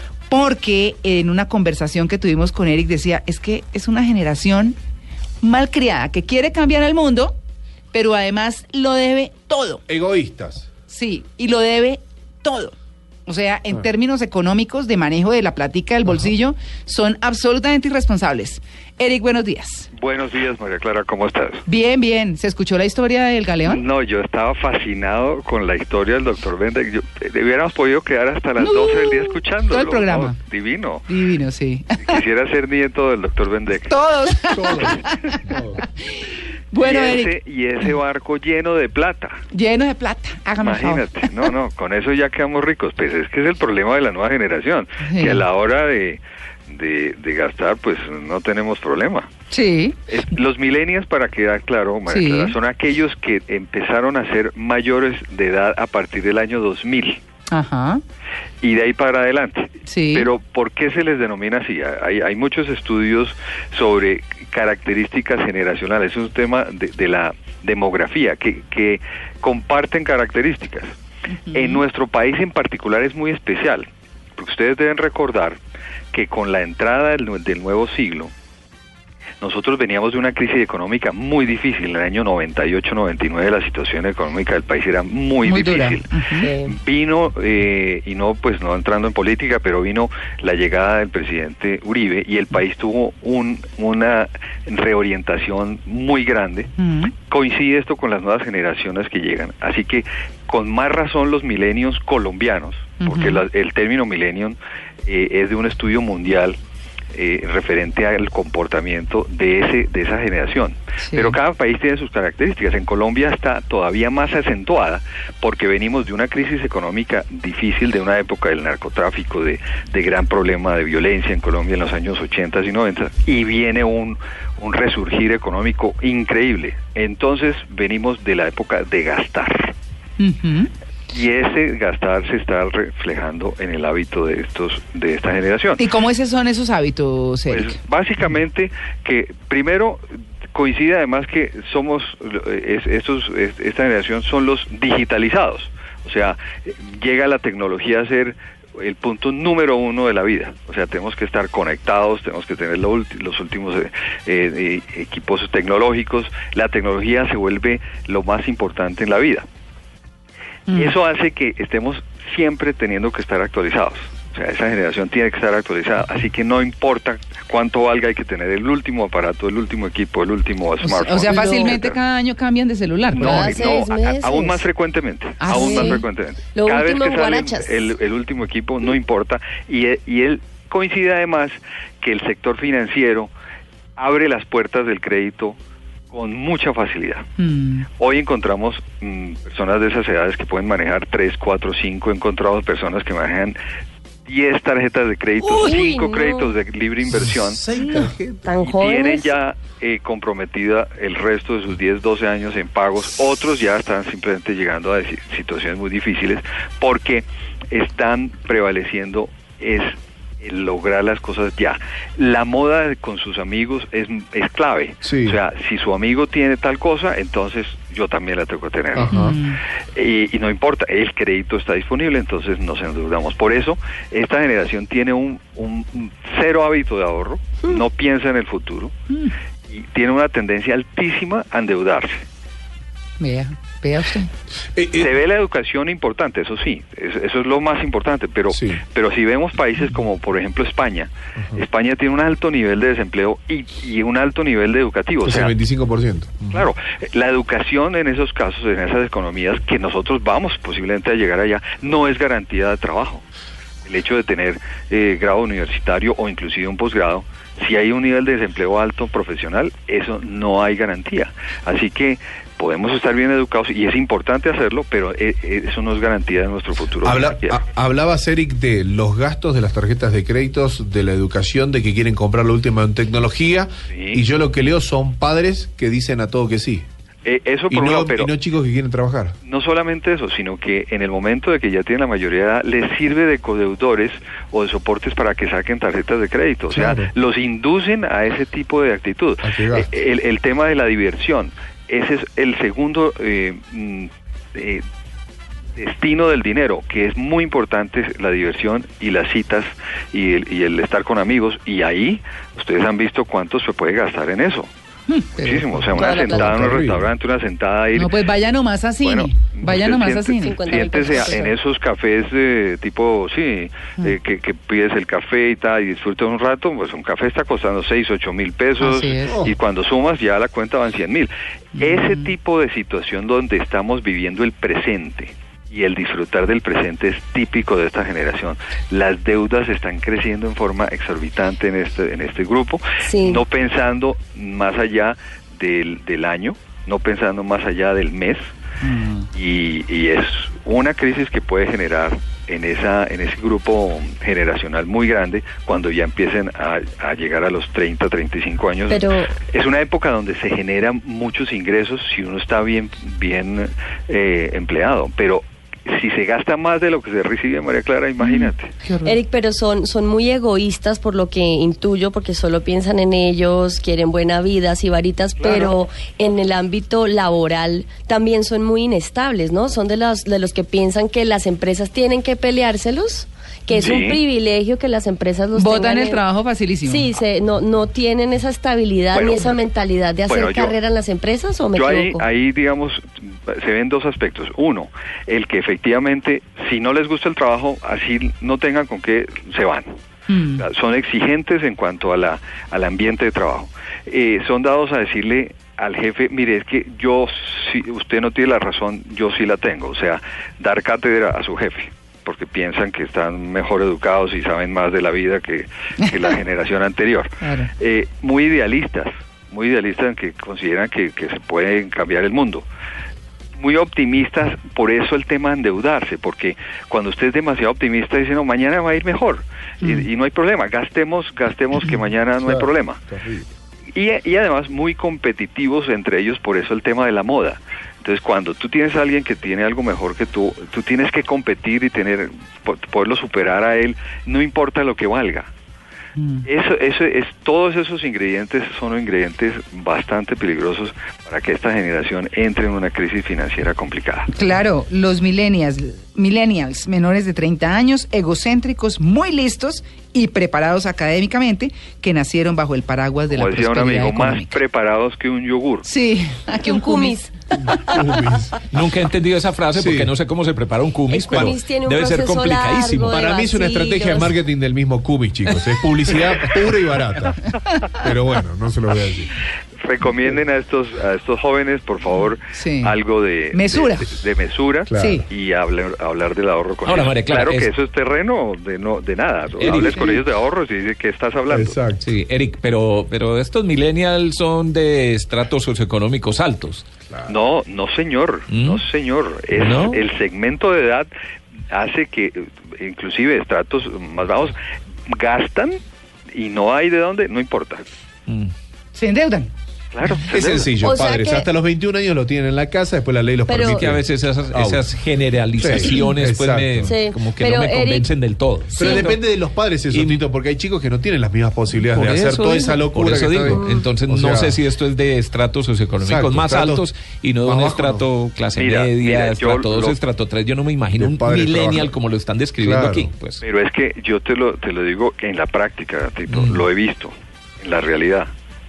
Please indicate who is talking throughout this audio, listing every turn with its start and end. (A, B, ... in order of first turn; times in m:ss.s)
0:00.3-0:04.8 A
0:05.4-0:07.4 A
0:07.9-0:09.8 A
0:09.9-0:10.7 B
0:10.9-0:12.7 A
0:13.2-0:19.9 A
0:19.9-0:21.6 C
0:21.6-0:23.8 A
0:23.6-0:31.1 C
0:28.6-0:30.4 A
0:31.1-0:32.1 A
0:32.0-0:34.0 C
0:33.9-0:37.3 A
0:34.5-0:35.8 B
0:36.8-0:39.4 C
0:39.5-0:41.5 A
0:40.6-0:49.3 C
0:45.0-0:45.4 A
0:49.5-0:50.0 A
0:50.1-0:57.2 C
0:52.1-0:52.6 A
0:57.5-0:58.0 A
0:58.6-1:10.9 C
0:59.9-1:00.3 A
1:11.4-1:11.8 A
1:11.5-1:15.6 C
1:16.1-1:18.3 C
1:19.4-1:46.6 C
1:25.4-1:26.5 A
1:26.4-1:26.8 D
1:36.8-1:37.1 A
1:43.0-1:43.4 A
1:47.1-2:09.7 C
1:51.0-1:51.4 A
2:10.2-2:10.7 A
2:11.1-2:15.8 C
2:15.8-2:17.8 A
2:17.5-2:39.4 C
2:40.7-2:52.0 C
2:50.8-2:53.6 A
2:51.2-2:51.8 D
2:53.1-3:03.3 C
2:53.2-2:54.6 D
2:55.4-2:56.0 A
2:55.5-2:57.8 D
3:04.0-3:05.6 C
3:06.1-3:07.2 C
3:07.4-3:07.8 A
3:08.0-3:13.6 C
3:14.2-3:17.6 C
3:15.4-3:16.6 D
3:17.1-3:18.5 B
3:18.4-3:19.3 D
3:18.6-3:39.2 C
3:35.0-3:35.4 B
3:38.9-3:39.3 B
3:39.1-3:39.6 A
3:39.9-3:48.9 C
3:49.7-3:52.2 C
3:53.2-3:54.3 A
3:54.7-3:55.1 B
3:54.9-4:05.6 C
3:58.5-3:58.8 B
4:05.2-4:06.7 B
4:06.5-4:13.2 C
4:13.8-4:27.6 C
4:27.0-4:36.8 B
4:33.9-4:34.2 C
4:37.2-4:38.3 C
4:37.7-4:39.3 B
4:39.4-4:54.8 C
4:46.7-4:47.1 B
4:49.4-4:49.9 B
4:55.8-5:04.7 C
5:05.1-5:05.9 A
5:05.4-5:08.1 C
5:05.9-5:06.6 D
5:05.9-5:07.1 B
5:07.9-5:10.6 A
5:09.0-5:38.5 C
5:10.4-5:11.5 D
5:18.8-5:19.4 A
5:19.3-5:19.5 B
5:21.8-5:22.3 A
5:33.0-5:33.4 D
5:38.8-5:39.3 A
5:39.3-5:58.8 C
5:48.9-5:49.3 D
5:59.0-6:16.2 D
6:05.4-6:05.8 C
6:13.7-6:14.2 C
6:15.5-6:17.1 A
6:16.8-6:22.2 D
6:19.1-6:19.6 C
6:20.3-6:20.8 C
6:21.7-6:29.9 C
6:30.3-6:30.6 A
6:30.6-6:52.6 C
6:47.4-6:47.7 A
6:53.6-7:03.0 C
6:59.8-7:00.1 A
7:02.4-7:03.5 B
7:03.9-7:15.5 C
7:16.2-7:16.4 A
7:16.4-7:24.3 C
7:24.3-7:34.6 A
7:33.3-7:35.9 C
7:35.8-7:37.2 A
7:36.6-7:38.2 D
7:37.5-7:38.6 B
7:38.7-7:43.4 E
7:39.8-7:40.1 B
7:41.1-7:44.3 D
7:41.3-7:41.6 B
7:43.0-7:47.4 B
7:45.5-7:45.8 E
7:47.9-7:49.3 B
7:49.8-8:01.8 C
7:52.5-7:52.9 A
7:53.5-7:54.1 A
7:54.9-7:55.2 B
7:55.0-7:55.2 A
7:56.8-7:57.7 E
7:59.6-8:00.2 E
7:59.6-8:00.2 B
8:01.5-8:02.0 B
8:02.0-8:06.9 E
8:07.1-8:07.3 B
8:07.3-8:11.1 C
8:08.5-8:08.8 E
8:09.5-8:10.0 E
8:11.7-8:14.6 C
8:15.1-8:15.8 C
8:16.3-8:17.8 C
8:18.3-8:18.5 E
8:18.9-8:19.5 A
8:19.9-8:20.7 C
8:20.3-8:24.0 B
8:20.8-8:21.5 D
8:23.5-8:23.9 D
8:23.6-8:29.1 E
8:24.5-8:24.8 B
8:25.6-8:26.9 B
8:26.8-8:28.1 D
8:28.7-8:29.1 D
8:28.8-8:34.6 B
8:29.9-8:30.2 E
8:31.7-8:43.4 E
8:33.5-8:33.9 D
8:36.0-8:36.8 B
8:37.4-8:38.1 B
8:38.6-8:40.0 C
8:41.0-8:41.9 B
8:42.6-8:43.1 B
8:43.4-8:48.3 C
8:46.3-8:46.6 E